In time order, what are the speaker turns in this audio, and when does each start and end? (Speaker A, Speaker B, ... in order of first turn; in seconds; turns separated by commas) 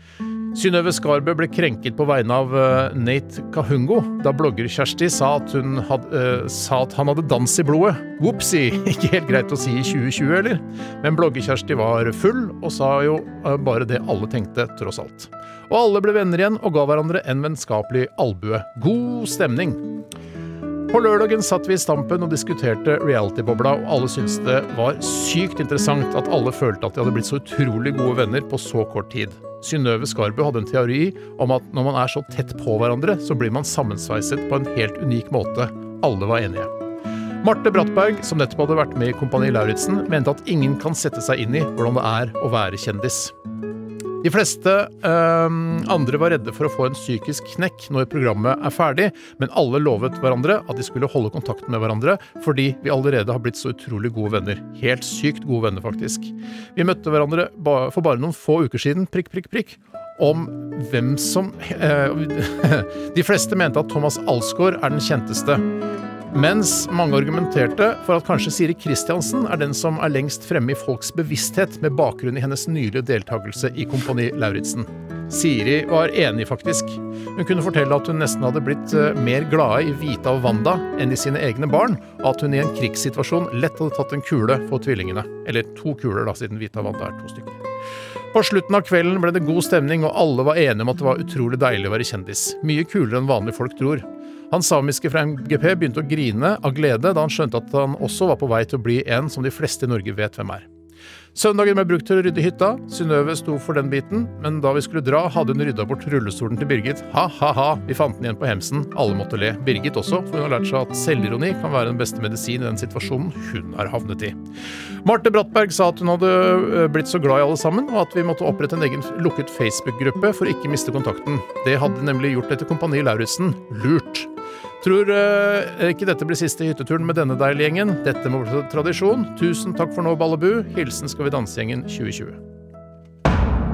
Speaker A: 0.5-20.0, Speaker A: 20.9-36.7, Speaker A: 37.4-43.3, Speaker A: 44.2-65.6, Speaker A: 66.3-87.6, Speaker A: 88.3-100.7, Speaker A: 101.3-114.4, Speaker A: 115.0-124.3, Speaker A: 124.8-132.4